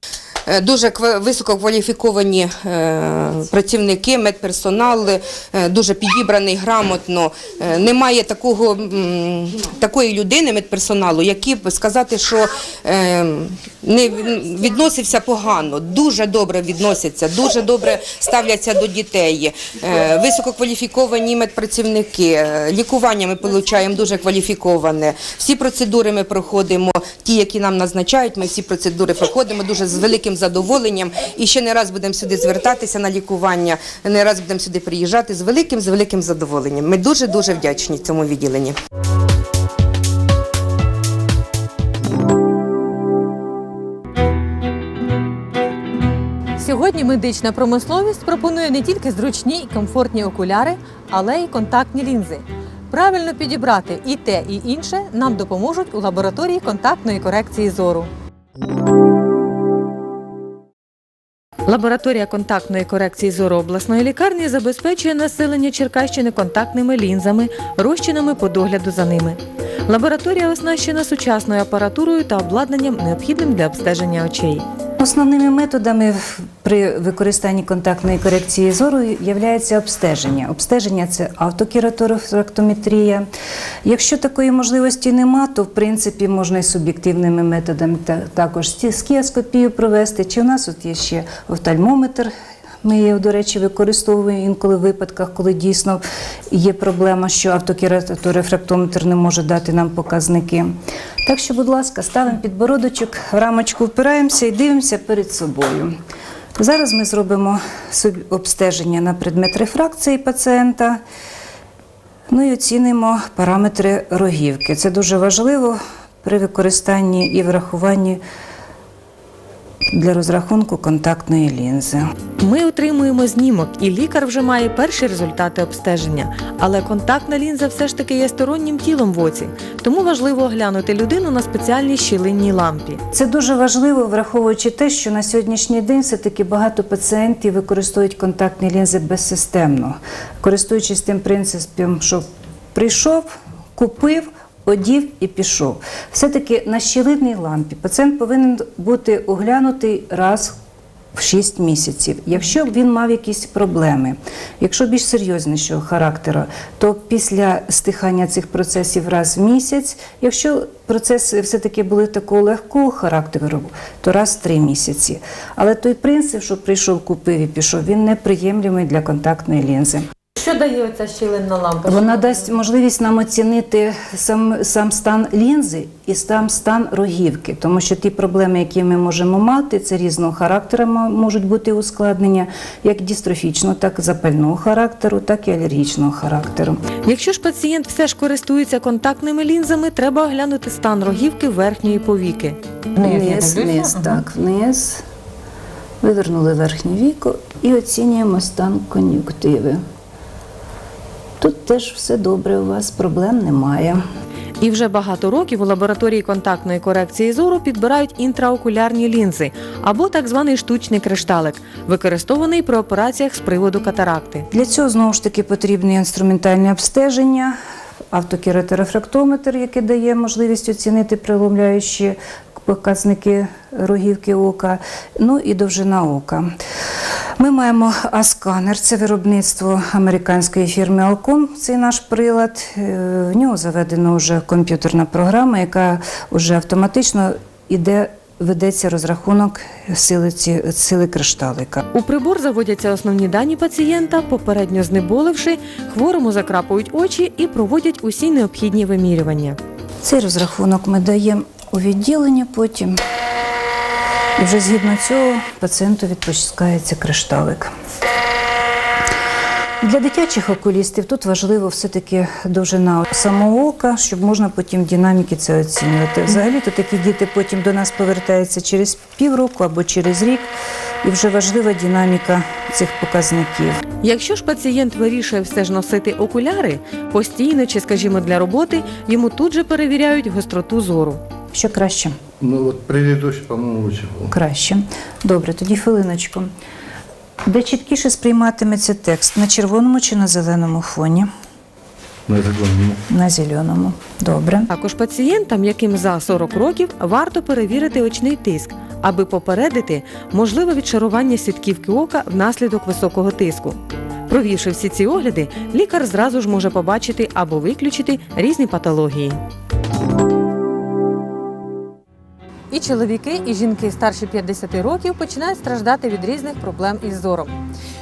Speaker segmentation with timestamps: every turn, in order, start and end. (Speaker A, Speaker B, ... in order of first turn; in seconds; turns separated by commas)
Speaker A: 0.5-38.7, Speaker B: 46.6-58.1, Speaker B: 61.6-74.7, Speaker C: 75.0-83.3, Speaker C: 83.8-92.3, Speaker C: 92.8-106.0, Speaker C: 106.5-111.0, Speaker C: 112.3-118.2, Speaker C: 119.9-122.1, Speaker B: 122.4-133.0, Speaker C: 133.1-150.6, Speaker C: 151.1-170.1, Speaker B: 170.3-172.5, Speaker C: 171.8-186.8, Speaker B: 187.0-194.2, Speaker C: 193.0-195.0, Speaker C: 196.0-199.8, Speaker C: 201.4-204.0, Speaker B: 204.6-214.5, Speaker C: 214.5-217.6, Speaker C: 218.1-226.5, Speaker C: 227.4-241.8, Speaker B: 241.9-249.6, Speaker C: 250.0-253.0, Speaker C: 254.4-257.7, Speaker C: 259.8-273.8, Speaker B: 274.0-281.2, Speaker C: 281.5-282.1, Speaker D: 282.4-284.3, Speaker C: 284.3-286.5, Speaker C: 287.4-291.3, Speaker D: 292.3-293.0, Speaker C: 293.1-294.7, Speaker B: 294.7-303.8, Speaker B: 304.3-309.4, Speaker B: 312.7-317.5